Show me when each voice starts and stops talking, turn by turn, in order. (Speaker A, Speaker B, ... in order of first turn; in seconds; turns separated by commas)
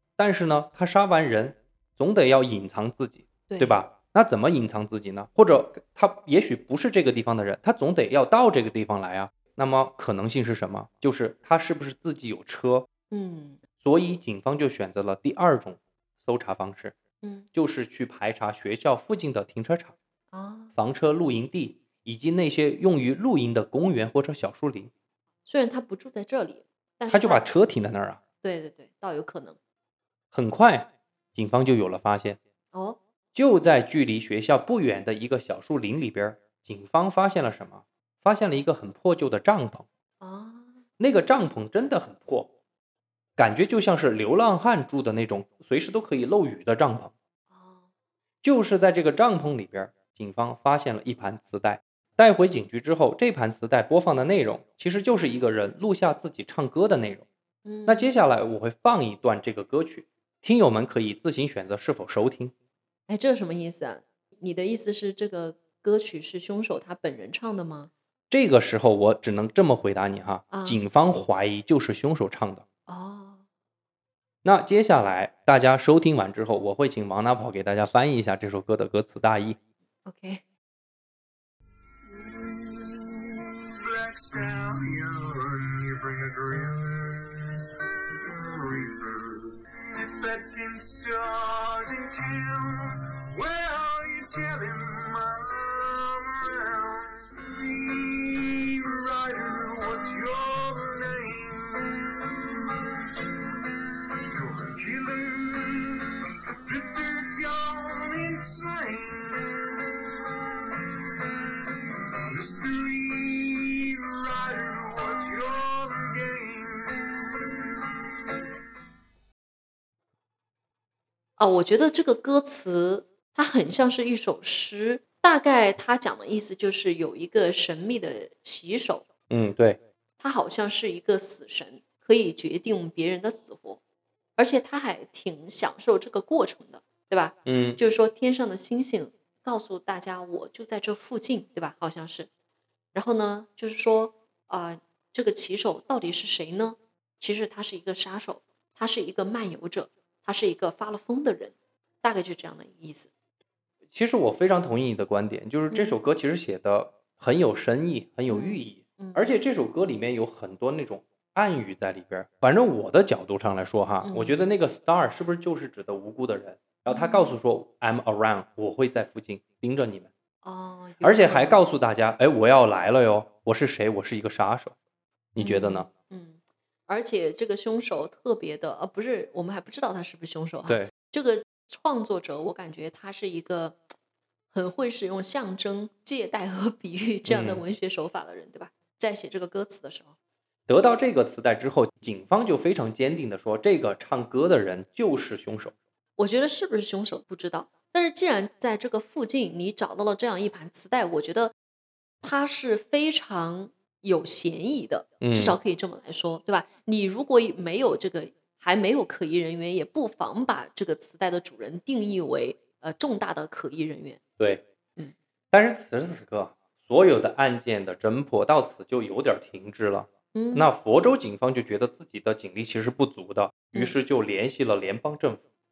Speaker A: 0.2-12.9, Speaker B: 3.5-3.8, Speaker B: 13.1-13.6, Speaker A: 13.8-16.9, Speaker B: 17.2-17.5, Speaker A: 17.5-19.9, Speaker B: 20.3-20.7, Speaker A: 20.8-24.9, Speaker B: 25.4-27.4, Speaker A: 27.1-28.2, Speaker B: 28.4-29.6, Speaker A: 30.3-32.4, Speaker B: 32.7-33.0, Speaker A: 33.3-39.9, Speaker B: 40.2-40.8, Speaker A: 41.0-42.5, Speaker A: 43.4-47.1, Speaker B: 47.5-47.8, Speaker A: 48.4-57.2, Speaker B: 57.6-58.1, Speaker A: 57.9-62.5, Speaker B: 63.1-67.9, Speaker A: 68.3-72.6, Speaker B: 70.5-70.8, Speaker B: 72.9-73.4, Speaker A: 74.4-79.6, Speaker B: 80.0-80.4, Speaker C: 82.0-103.5, Speaker C: 104.2-111.7, Speaker C: 112.2-117.9, Speaker B: 121.4-129.0, Speaker A: 129.3-129.8, Speaker B: 130.2-133.8, Speaker B: 134.4-142.3, Speaker A: 137.4-137.8, Speaker B: 142.9-153.1, Speaker A: 153.9-170.1, Speaker B: 155.7-156.0, Speaker B: 158.3-159.3, Speaker B: 164.0-164.4, Speaker B: 166.9-167.3, Speaker B: 170.4-171.6, Speaker A: 171.0-174.7, Speaker A: 175.3-175.9, Speaker B: 175.4-183.8, Speaker A: 180.7-180.9, Speaker B: 184.5-190.1, Speaker A: 187.3-187.6, Speaker A: 190.7-195.7, Speaker B: 196.2-201.5, Speaker B: 202.2-214.2, Speaker A: 205.2-205.6, Speaker A: 215.5-225.4, Speaker B: 220.3-220.7